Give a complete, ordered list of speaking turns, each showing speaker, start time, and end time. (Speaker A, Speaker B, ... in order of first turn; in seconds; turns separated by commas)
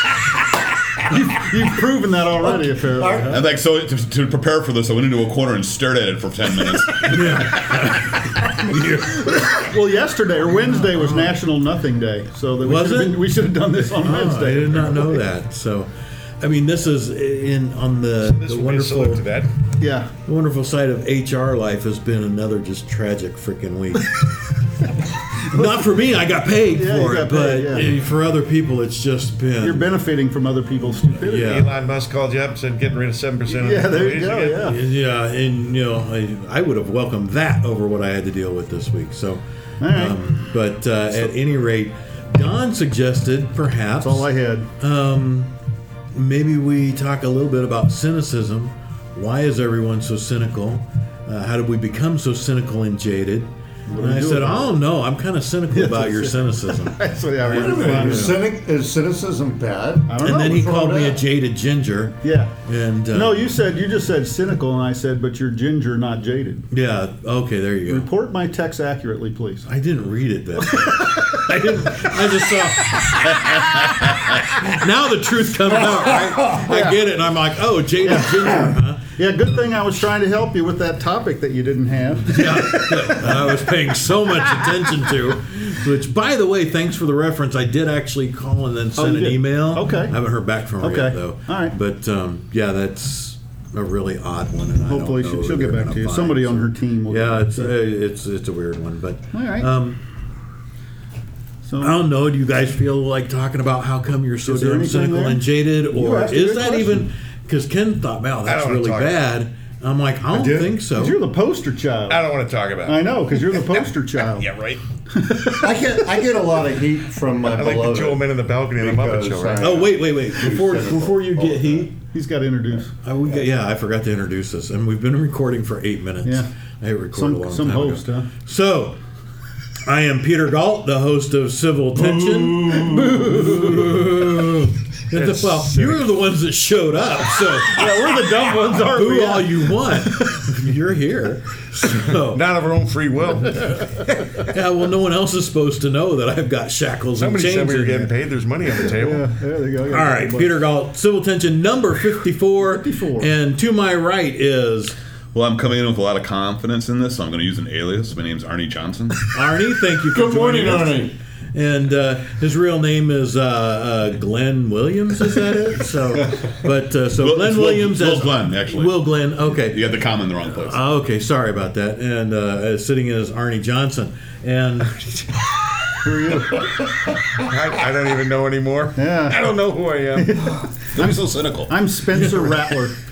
Speaker A: 1.1-3.4, Speaker B: 2.4-3.4, Speaker C: 3.3-7.8, Speaker D: 7.0-9.4, Speaker A: 9.4-15.2, Speaker D: 10.6-11.4, Speaker D: 12.6-13.3, Speaker D: 13.9-19.3, Speaker E: 18.2-19.5, Speaker A: 19.8-20.1, Speaker D: 20.2-24.3, Speaker D: 24.8-29.9, Speaker A: 26.7-27.9, Speaker A: 29.6-31.5, Speaker D: 31.2-31.7, Speaker E: 31.4-34.8, Speaker A: 33.5-34.8, Speaker D: 34.6-45.5, Speaker A: 39.8-40.2, Speaker A: 44.0-44.7, Speaker D: 46.1-58.4, Speaker A: 53.9-54.8, Speaker A: 55.7-58.4, Speaker B: 57.4-61.2, Speaker A: 60.1-60.7, Speaker D: 60.2-63.5, Speaker A: 62.2-62.5, Speaker A: 63.1-66.7, Speaker D: 66.7-68.1, Speaker A: 67.9-69.7, Speaker D: 69.7-73.8, Speaker A: 70.8-72.2, Speaker D: 74.4-79.1, Speaker A: 76.6-77.0, Speaker A: 78.0-83.5, Speaker D: 82.2-100.0, Speaker A: 89.0-90.2, Speaker A: 90.8-91.8, Speaker A: 94.9-97.7, Speaker A: 99.3-99.7, Speaker A: 101.6-102.0, Speaker D: 101.8-111.2, Speaker A: 104.5-107.0, Speaker E: 108.5-109.2, Speaker A: 110.3-112.3, Speaker E: 112.1-114.8, Speaker A: 112.8-114.5, Speaker A: 115.1-115.7, Speaker B: 115.5-121.9, Speaker E: 117.5-119.9, Speaker D: 119.6-122.0, Speaker A: 122.1-122.9, Speaker D: 123.0-129.0, Speaker A: 126.2-126.5, Speaker A: 127.1-128.3, Speaker D: 129.8-138.1, Speaker A: 132.6-134.0, Speaker E: 135.1-136.1, Speaker A: 137.7-139.7, Speaker D: 138.8-142.4, Speaker E: 141.9-143.8, Speaker D: 144.3-148.1, Speaker E: 147.2-149.3, Speaker A: 148.9-150.6, Speaker D: 149.9-154.9, Speaker A: 152.6-153.3, Speaker C: 155.3-159.3, Speaker D: 159.3-169.9, Speaker C: 160.2-161.1, Speaker B: 160.5-161.1, Speaker C: 167.2-169.0, Speaker C: 169.6-170.8, Speaker D: 170.5-175.0, Speaker A: 176.0-176.6, Speaker E: 177.3-180.3, Speaker A: 179.0-179.4, Speaker A: 180.2-183.0, Speaker C: 180.9-181.8